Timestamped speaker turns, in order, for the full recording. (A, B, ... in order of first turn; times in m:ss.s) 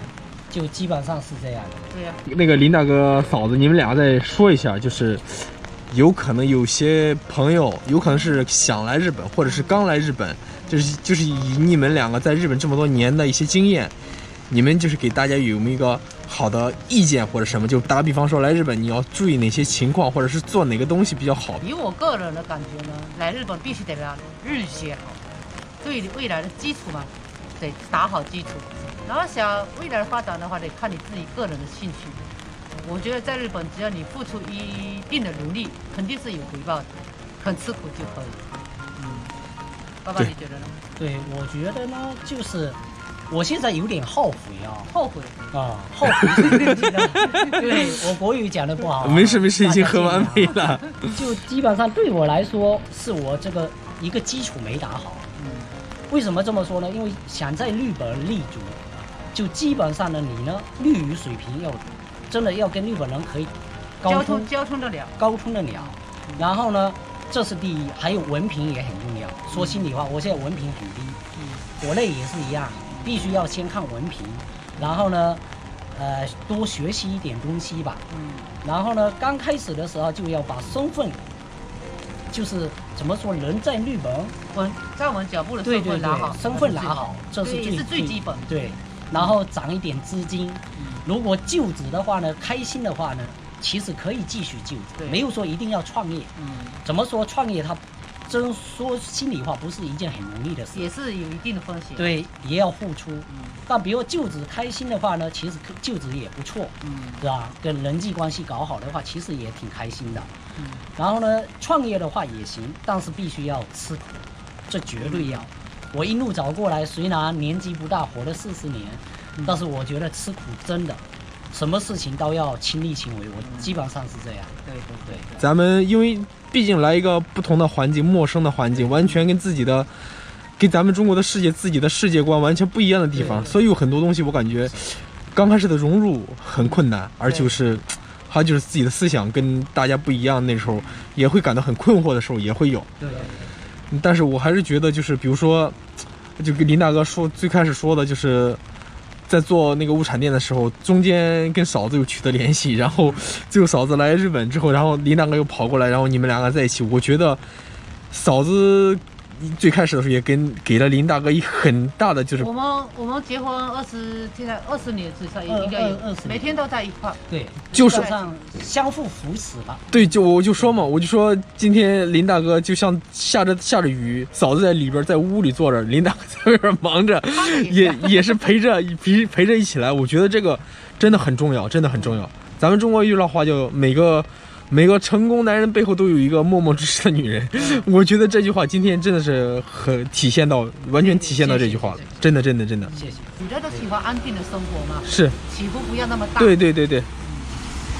0:00.5-0:01.9 A
0:01.9-0:02.2 B
0:02.2-0:13.9 C
0:09.4-0:09.8 B
0:14.5-0:21.6 C
0:21.6-0:25.2 B
0:25.8-0:32.2 B
0:32.8-0:38.4 B
0:39.0-0:39.3 B
0:40.0-0:40.8 B
0:41.0-0:44.9 A
0:44.9-0:45.4 B
0:45.5-0:55.3 A
0:46.5-0:48.0 B
0:49.0-0:51.2 C
0:49.2-0:49.4 B
0:55.4-0:55.7 B
0:56.1-1:04.5 A
1:04.0-1:05.2 B
1:05.2-1:11.2 A
1:05.8-1:06.5 B
1:09.5-1:09.9 B
1:11.4-1:11.6 B
1:11.8-1:18.0 A
1:14.8-1:15.0 B
1:18.1-1:18.5 B
1:18.6-1:21.2 A
1:22.3-1:24.3 A
1:24.5-1:29.4 B
1:25.6-1:36.3 A
1:30.7-1:31.0 B
1:35.0-1:35.2 B
1:36.4-1:36.8 B
1:36.8-1:40.9 A
1:40.7-1:42.1 B
1:42.0-1:50.3 A
1:43.3-1:43.6 B
1:46.8-1:47.2 B
1:50.5-1:50.8 B
1:51.0-1:54.1 A
1:54.7-2:04.5 A
1:55.0-1:55.5 B
2:03.4-2:03.7 B
2:04.6-2:05.4 B
2:05.4-2:09.9 C
2:08.8-2:09.2 B
2:10.6-2:22.9 C
2:13.1-2:13.5 A
2:13.1-2:13.6 B
2:16.6-2:17.5 B
2:20.7-2:21.0 B
2:23.0-2:23.5 A
2:23.0-2:23.4 B
2:23.9-2:25.8 C
2:26.4-2:28.6 C
2:29.3-2:37.4 C
2:38.1-2:42.5 C
2:42.4-2:48.3 B
2:45.5-2:46.5 A
2:47.3-2:49.8 A
2:47.7-2:48.1 C
2:49.9-3:12.9 C
2:57.3-2:58.1 B
3:01.9-3:02.3 B
3:07.5-3:07.9 B
3:11.0-3:12.1 B
3:12.8-3:16.6 B
3:12.9-3:13.8 A
3:15.0-3:15.4 C
3:16.4-3:17.1 C
3:17.2-3:17.6 B